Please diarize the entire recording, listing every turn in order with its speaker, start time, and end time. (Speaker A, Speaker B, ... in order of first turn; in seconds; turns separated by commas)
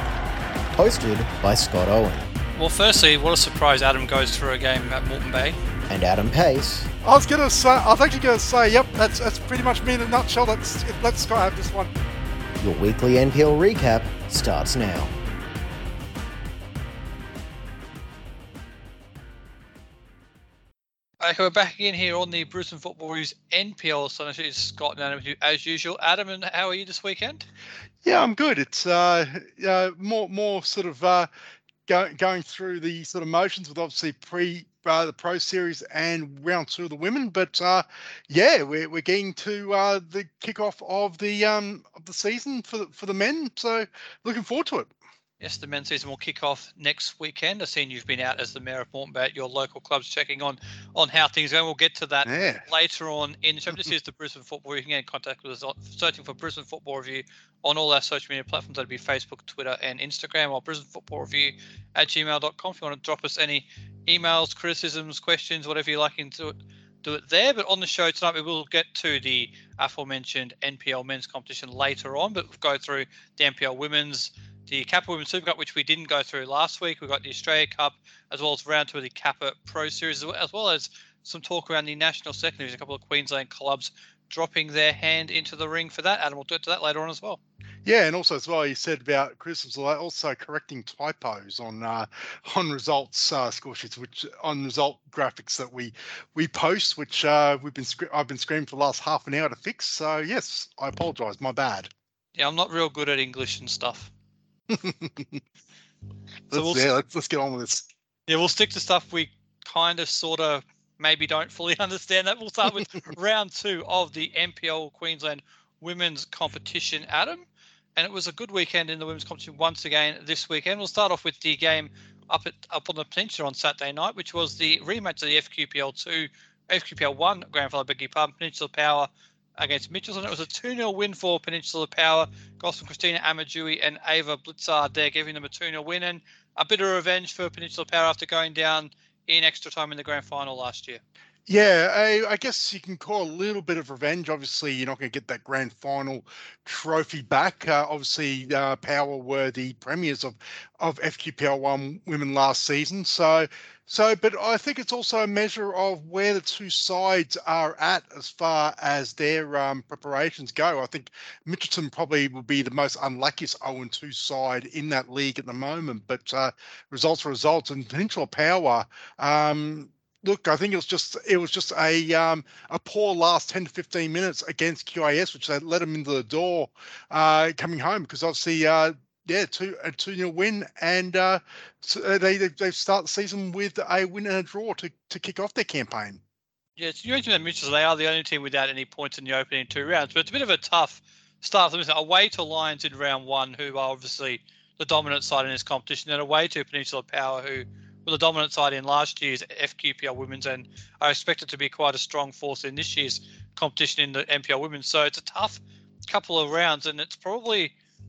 Speaker A: 0.8-2.3, Speaker B: 2.6-5.6, Speaker A: 5.9-6.9, Speaker C: 7.0-11.9, Speaker A: 12.6-15.1, Speaker B: 21.2-27.5, Speaker C: 28.0-31.3, Speaker C: 31.9-44.9, Speaker B: 45.4-87.4, Speaker C: 52.3-52.6, Speaker C: 87.8-101.9, Speaker B: 102.3-104.1, Speaker C: 104.7-105.4, Speaker C: 106.5-107.9, Speaker B: 106.5-106.9, Speaker B: 108.3-117.5, Speaker B: 118.0-141.0, Speaker C: 141.5-186.2, Speaker B: 186.8-207.8